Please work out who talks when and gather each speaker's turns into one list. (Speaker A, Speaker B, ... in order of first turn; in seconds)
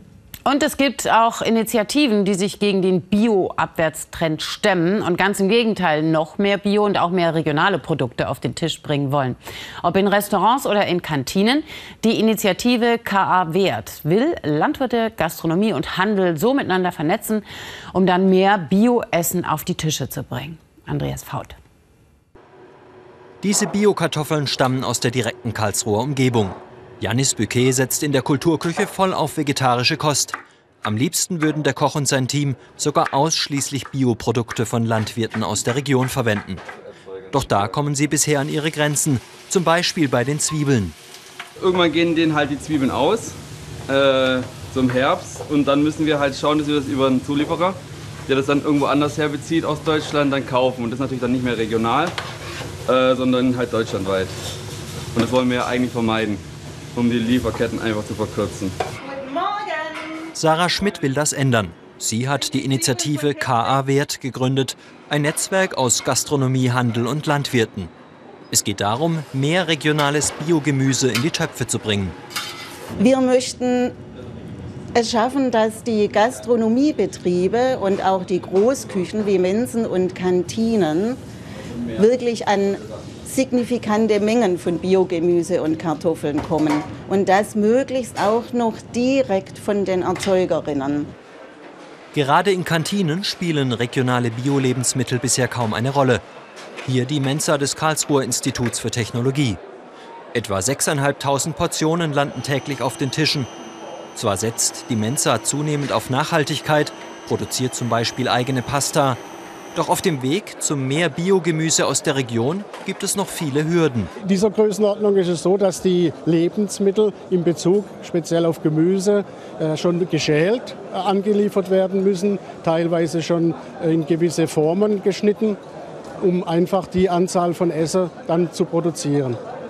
Speaker A: 0.5-21.6
Speaker B: 23.4-36.6, 37.3-41.0, 60.4-67.9, 68.5-72.2, 92.1-96.2, 96.8-99.6, 100.3-103.5, 104.2-109.2, 109.8-114.1
Speaker C: 41.6-43.4, 43.9-52.1, 52.9-54.3, 55.1-56.4, 57.0-58.8
Speaker D: 73.0-74.0, 75.0-81.2, 82.0-91.1
Speaker E: 114.2-125.6, 126.2-129.4